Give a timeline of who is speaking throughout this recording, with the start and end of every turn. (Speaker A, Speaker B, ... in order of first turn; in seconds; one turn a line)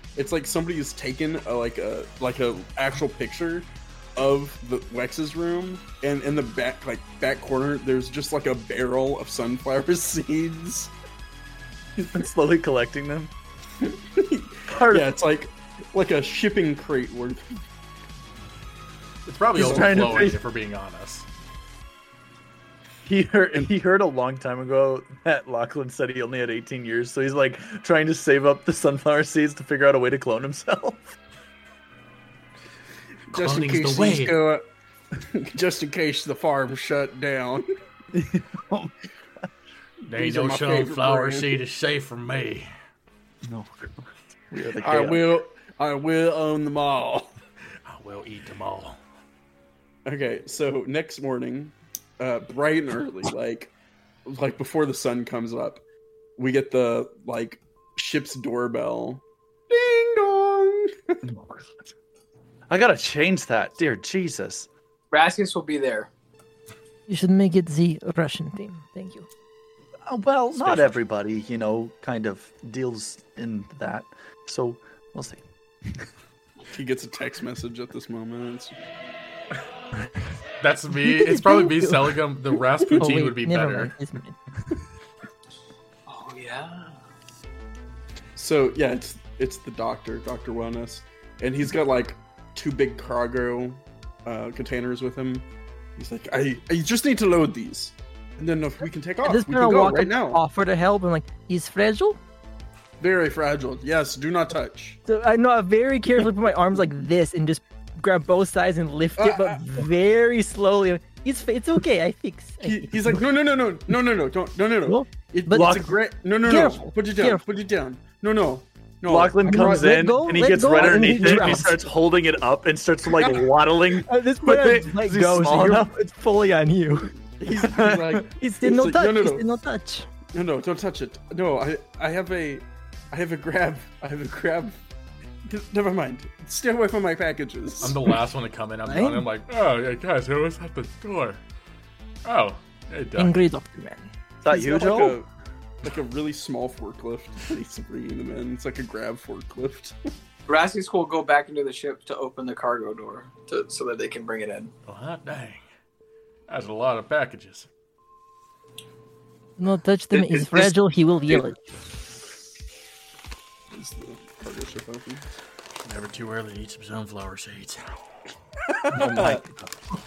Speaker A: 0.2-10.9
Speaker B: 12.0-13.3
Speaker A: 13.8-17.6
Speaker B: 14.7-15.1
Speaker C: 19.3-21.3
Speaker B: 19.6-20.4
Speaker B: 23.1-31.1
Speaker A: 33.3-34.6
Speaker C: 33.3-34.4
Speaker A: 35.2-37.7
Speaker B: 38.1-38.9
Speaker A: 40.1-41.6
Speaker C: 40.1-42.7
Speaker B: 43.4-45.4
Speaker A: 44.8-47.3
Speaker C: 47.9-49.0
Speaker A: 50.1-53.7
Speaker A: 54.3-55.8
Speaker A: 56.4-61.2
Speaker B: 61.2-61.9
Speaker B: 62.7-64.7
Speaker D: 65.1-66.1
Speaker E: 67.1-69.3
Speaker B: 70.1-76.1
Speaker C: 70.6-70.9
Speaker A: 76.7-78.8
Speaker C: 80.6-83.9
Speaker E: 81.0-84.4
Speaker D: 86.1-87.0
Speaker A: 88.4-95.5
Speaker A: 96.0-100.4
Speaker E: 99.2-102.2
Speaker A: 103.0-105.0
Speaker E: 105.1-113.2
Speaker A: 109.2-109.6
Speaker A: 112.6-121.9
Speaker E: 114.8-115.8
Speaker B: 115.5-115.9
Speaker E: 116.4-117.4
Speaker B: 119.1-125.9
Speaker E: 119.5-121.8
Speaker A: 123.1-123.4
Speaker E: 123.9-127.2
Speaker A: 127.4-129.4
Speaker B: 127.5-128.2
Speaker E: 128.4-130.1
Speaker A: 130.3-134.8
Speaker A: 135.4-138.1
Speaker C: 137.8-141.4
Speaker E: 138.9-139.3
Speaker C: 142.2-143.3
Speaker E: 143.2-144.1
Speaker B: 144.4-145.2
Speaker A: 144.5-145.3
Speaker A: 145.8-150.0
Speaker D: 150.5-154.7
Speaker C: 154.9-155.6
Speaker C: 156.5-157.7
Speaker E: 159.6-161.6
Speaker D: 160.1-160.7
Speaker A: 163.7-165.3
Speaker C: 165.8-167.9
Speaker A: 168.7-169.4
Speaker B: 168.9-169.7